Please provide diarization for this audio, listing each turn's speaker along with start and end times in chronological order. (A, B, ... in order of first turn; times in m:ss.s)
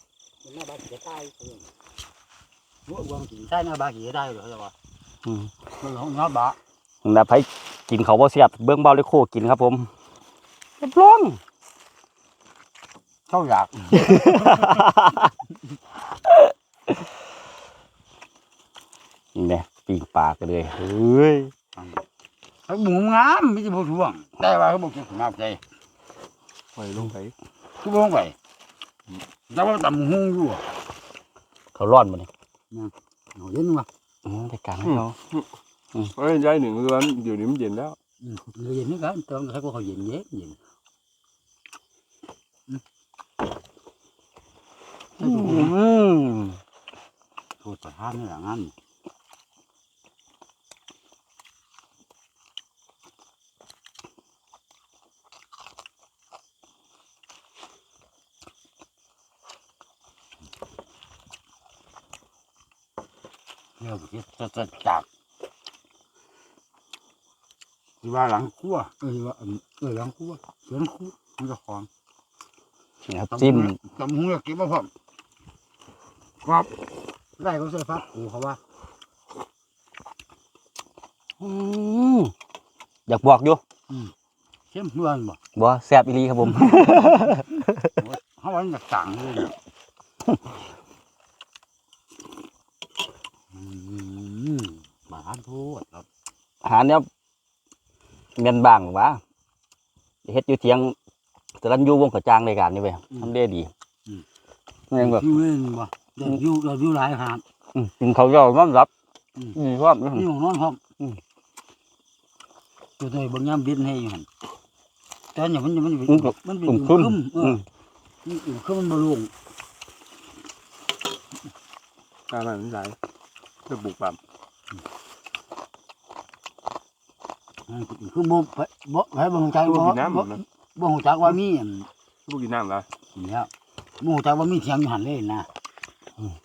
0:00.4-0:01.7 A
0:02.9-0:04.7 A
0:05.3-0:05.5 B
0:05.8-0:06.6 A
0:07.0-0:09.9 B
0:10.8-0:11.4 B
0:13.3-0:14.9 A
0:13.9-0:15.3 B
0:19.4-0:21.5 B
0:21.8-0:22.0 A
0:22.7-0:25.6 A
0:26.8-0:27.3 C
0:27.8-0:28.4 A
0:29.5-0:30.6 A
0:31.8-0:32.3 B
0:32.7-0:33.9 A
0:34.2-0:35.2 B
0:34.8-0:35.4 C
0:36.2-0:38.0 C
0:38.2-0:40.6 A
0:45.2-0:45.8 A
0:45.2-0:46.6 B
0:47.6-0:48.7 A
1:03.8-1:05.1 A
1:08.0-1:11.9 A
1:13.1-1:13.8 B
1:13.3-1:14.9 A
1:16.4-1:16.7 A
1:17.4-1:18.6 A
1:21.4-1:22.3 B
1:23.1-1:23.6 B
1:23.9-1:24.1 A
1:24.7-1:25.4 A
1:25.6-1:27.9 B
1:26.5-1:27.4 A
1:28.0-1:29.5 A
1:33.5-1:36.1 A
1:36.6-1:37.1 B
1:38.4-1:39.2 B
1:40.2-1:41.0 B
1:41.6-1:43.7 B
1:44.9-1:45.3 B
1:45.0-1:47.4 A
1:47.8-1:48.9 B
1:49.5-1:50.2 B
1:50.1-1:50.8 A
1:53.0-1:54.3 A
1:55.4-1:57.6 A
1:56.1-1:57.6 B
1:58.2-1:59.3 A
2:02.3-2:03.0 C
2:03.7-2:04.2 C
2:07.7-2:11.9 A
2:09.6-2:10.4 C
2:12.3-2:12.9 C
2:13.1-2:15.5 A